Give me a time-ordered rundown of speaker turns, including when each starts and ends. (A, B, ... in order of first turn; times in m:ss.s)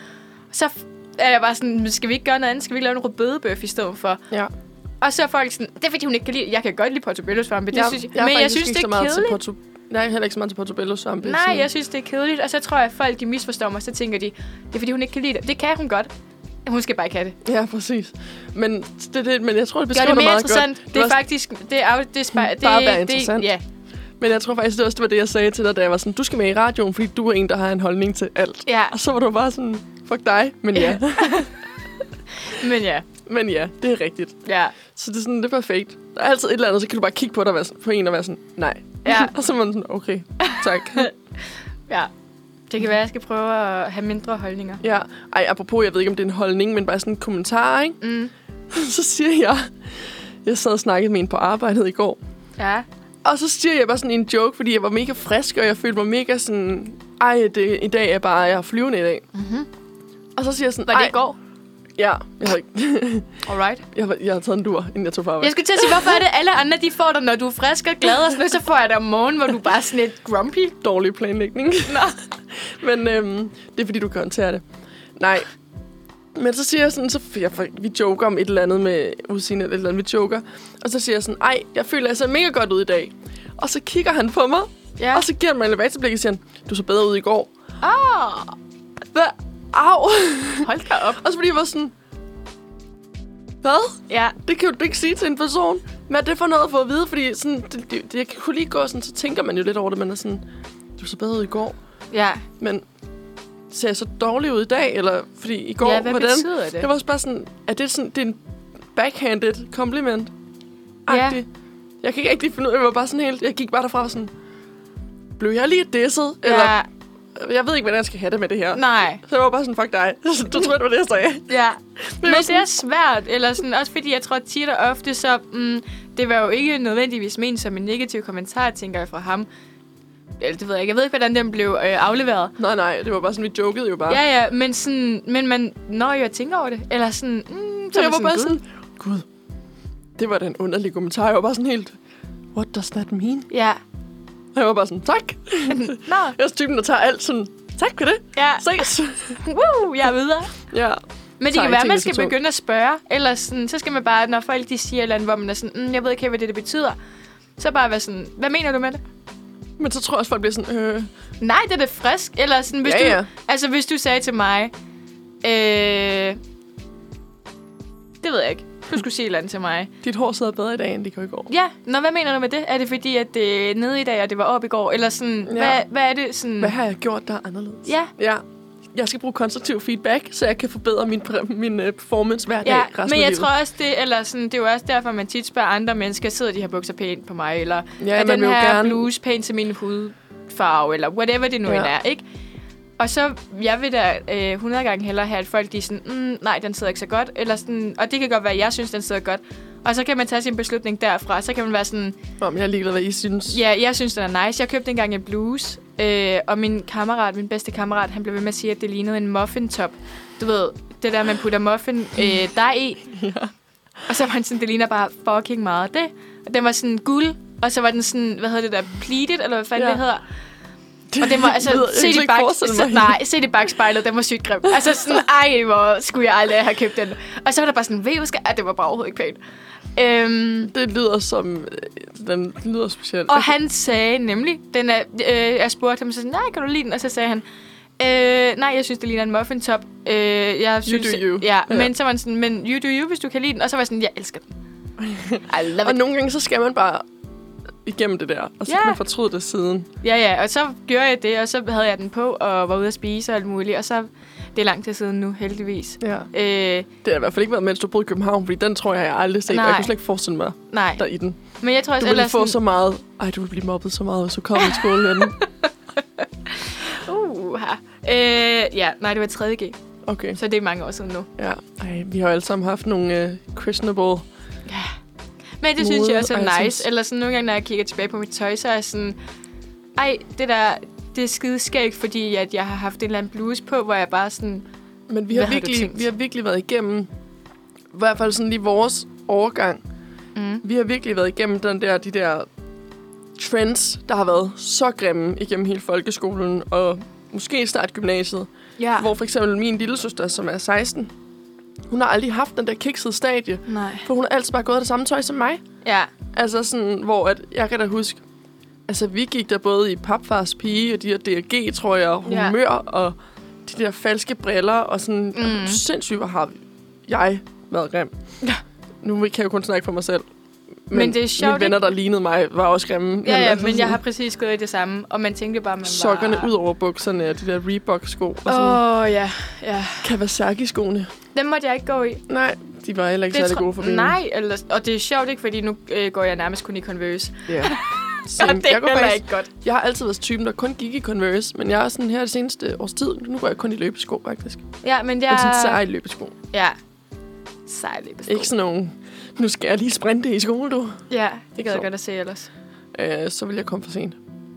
0:00.5-0:04.2 A
0:05.0-0:09.4 A
0:07.7-0:11.7 B
0:11.2-0:16.1 A
0:16.6-0:17.4 A
0:17.4-0:21.2 B
0:19.9-0:23.6 A
0:22.3-0:23.5 B
0:24.2-0:31.5 B
0:28.6-0:28.9 A
0:30.8-0:31.5 A
0:32.4-0:33.1 A
0:33.2-0:41.1 B
0:34.4-0:34.8 A
0:39.0-0:39.3 A
0:40.4-0:41.1 A
0:42.7-0:44.8 A
0:44.8-0:48.0 B
0:48.0-0:48.3 A
0:48.7-0:52.2 B
0:52.6-0:52.9 A
0:53.2-0:59.2 B
0:59.3-0:59.7 A
1:00.4-1:01.2 B
1:00.9-1:01.4 A
1:02.0-1:06.2 B
1:03.4-1:03.8 A
1:05.4-1:10.8 A
1:10.8-1:14.6 B
1:11.9-1:12.1 A
1:15.2-1:15.5 B
1:16.3-1:27.5 B
1:25.0-1:25.3 A
1:27.8-1:28.5 A
1:29.1-1:31.9 B
1:30.6-1:31.2 A
1:33.6-1:40.4 B
1:34.1-1:34.3 A
1:41.0-1:41.8 B
1:42.1-1:42.4 A
1:42.6-1:42.8 B
1:43.7-1:48.4 B
1:45.8-1:46.9 A
1:48.9-1:50.3 B
1:51.0-1:51.4 B
1:51.1-1:51.4 A
1:52.0-1:54.3 B
1:55.4-1:56.8 B
1:56.4-1:56.9 A
1:57.4-2:02.7 B
1:58.7-1:59.2 A
2:01.5-2:09.5 A
2:10.4-2:12.5 A
2:12.6-2:14.2 B
2:14.1-2:18.6 A
2:17.9-2:19.2 B
2:20.2-2:22.0 B
2:22.5-2:23.5 B
2:23.5-2:23.8 A
2:24.5-2:29.4 B
2:25.7-2:26.4 A
2:28.4-2:28.8 A
2:29.4-2:30.5 A
2:30.7-2:32.3 B
2:31.4-2:37.0 A
2:37.6-2:39.0 A
2:39.8-2:41.1 B
2:41.4-2:44.7 A
2:42.8-2:43.3 B
2:45.4-2:46.4 A
2:48.2-2:49.9 A
2:50.0-2:51.5 B
2:51.5-2:56.7 A
2:55.5-2:55.8 B
2:56.6-3:03.5 B
2:57.8-2:58.1 A
3:02.6-3:12.2 A
3:08.0-3:09.1 B
3:11.7-3:11.9 B
3:13.0-3:22.2 A
3:22.4-3:23.6 B
3:23.5-3:33.1 A
3:33.1-3:33.5 B
3:34.1-3:40.2 A
3:39.8-3:40.0 B
3:41.1-3:43.2 B
3:41.2-3:49.4 A
3:49.9-3:50.7 A
3:50.6-3:53.5 B
3:53.3-3:57.4 A
3:58.0-4:04.5 A
4:00.8-4:01.9 B
4:05.0-4:07.0 B
4:05.5-4:06.0 A
4:07.8-4:09.9 B
4:08.7-4:09.0 A
4:10.0-4:16.9 A
4:16.0-4:16.3 B
4:17.0-4:21.4 B
4:19.5-4:19.9 A
4:20.7-4:21.0 A
4:21.6-4:22.6 A
4:22.0-4:25.4 B
4:24.6-4:29.8 A
4:30.0-4:30.4 B
4:30.4-4:31.3 A
4:31.4-4:34.2 B
4:34.6-4:35.0 A
4:35.6-4:39.2 A
4:35.8-4:36.8 B
4:40.0-4:44.6 A
4:45.1-4:47.1 B
4:45.3-4:46.0 A
4:47.9-4:49.8 B
4:50.4-4:50.6 A
4:50.6-4:52.5 B
4:53.4-5:01.1 B
4:58.8-4:59.1 A
5:01.9-5:05.6 B
5:03.7-5:04.1 A
5:05.8-5:06.1 A
5:06.3-5:08.2 B
5:08.9-5:13.1 B
5:12.2-5:12.6 A
5:13.6-5:18.1 B
5:15.3-5:15.8 A
5:19.0-5:20.2 B
5:20.9-5:24.0 B
5:20.9-5:21.8 A
5:23.2-5:26.5 A
5:25.8-5:28.8 B
5:28.4-5:30.1 A
5:30.0-5:31.1 B
5:31.3-5:32.2 A
5:32.3-5:34.2 B
5:33.3-5:39.5 A
5:37.5-5:44.6 B
5:44.8-5:45.8 A
5:45.3-5:46.4 B
5:46.5-5:46.8 A
5:47.6-5:48.5 A
5:48.3-5:51.9 B
5:51.1-5:52.5 A
5:52.9-5:54.2 B